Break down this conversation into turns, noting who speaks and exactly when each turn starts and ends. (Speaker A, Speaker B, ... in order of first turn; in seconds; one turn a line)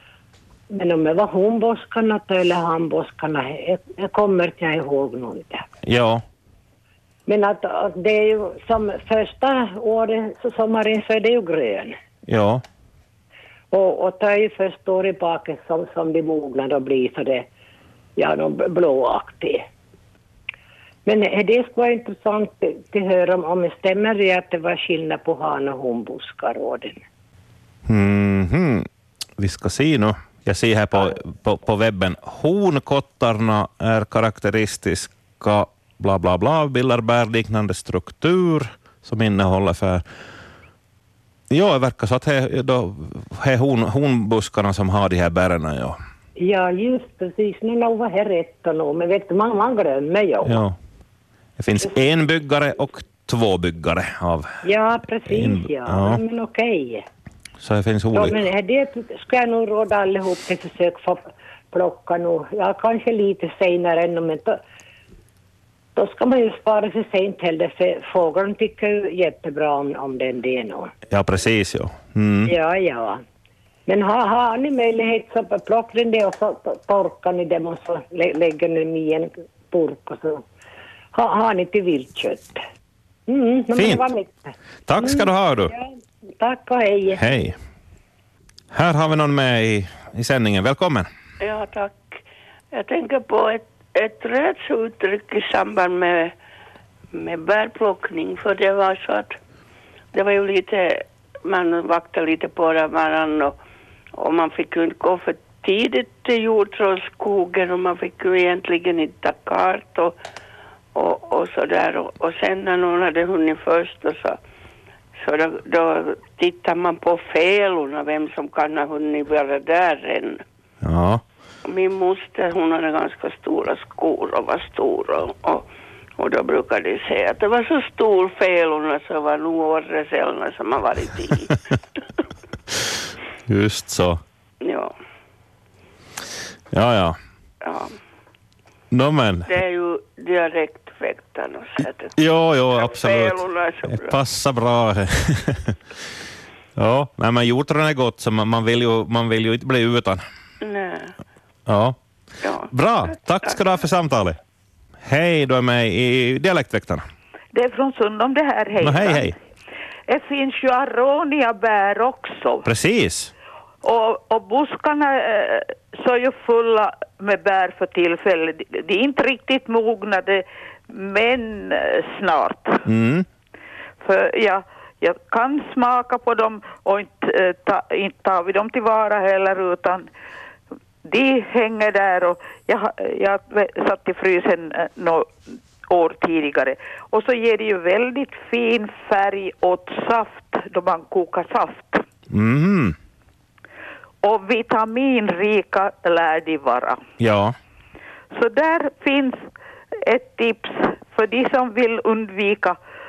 Speaker A: 0.7-5.6
Speaker B: 5.8-6.2
Speaker A: 7.2-11.9
Speaker B: 12.3-12.6
Speaker A: 13.7-17.5
Speaker A: 18.1-19.6
Speaker A: 21.1-27.0
Speaker B: 27.9-28.9
Speaker B: 29.4-40.0
Speaker B: 41.5-46.0
Speaker A: 46.4-50.6
Speaker B: 50.4-50.8
Speaker B: 51.6-54.5
Speaker A: 54.6-57.0
Speaker B: 55.3-56.2
Speaker B: 57.6-58.4
Speaker A: 58.1-64.6
Speaker A: 66.0-70.9
Speaker B: 71.1-72.5
Speaker A: 72.5-73.2
Speaker A: 73.9-80.4
Speaker A: 81.1-82.6
Speaker A: 83.3-87.2
Speaker B: 83.8-84.0
Speaker B: 84.9-85.7
Speaker B: 87.2-87.5
Speaker B: 88.7-91.1
Speaker C: 91.4-96.3
Speaker C: 97.1-99.4
Speaker C: 100.1-103.5
Speaker C: 104.2-110.2
Speaker C: 110.9-114.4
Speaker C: 115.2-120.4
Speaker B: 120.8-121.2
Speaker C: 121.6-125.7
Speaker C: 126.2-131.5
Speaker B: 133.5-134.2
Speaker C: 134.6-134.9
Speaker B: 136.7-137.2
Speaker C: 137.6-137.9
Speaker B: 138.9-139.5
Speaker C: 139.4-142.1
Speaker B: 142.2-145.8
Speaker C: 142.7-144.2
Speaker B: 146.8-150.2
Speaker C: 150.6-151.1
Speaker B: 151.7-151.9
Speaker C: 152.4-153.7
Speaker B: 152.7-154.4
Speaker B: 155.0-157.0
Speaker D: 157.5-159.3
Speaker B: 158.8-159.3
Speaker D: 160.1-162.7
Speaker B: 162.6-163.3
Speaker D: 163.8-172.8
Speaker B: 172.8-173.2
Speaker D: 174.0-180.1
Speaker D: 181.0-192.0
Speaker B: 192.3-192.9
Speaker D: 194.2-197.0
Speaker B: 197.2-197.6
Speaker D: 198.3-199.4
Speaker D: 200.1-202.8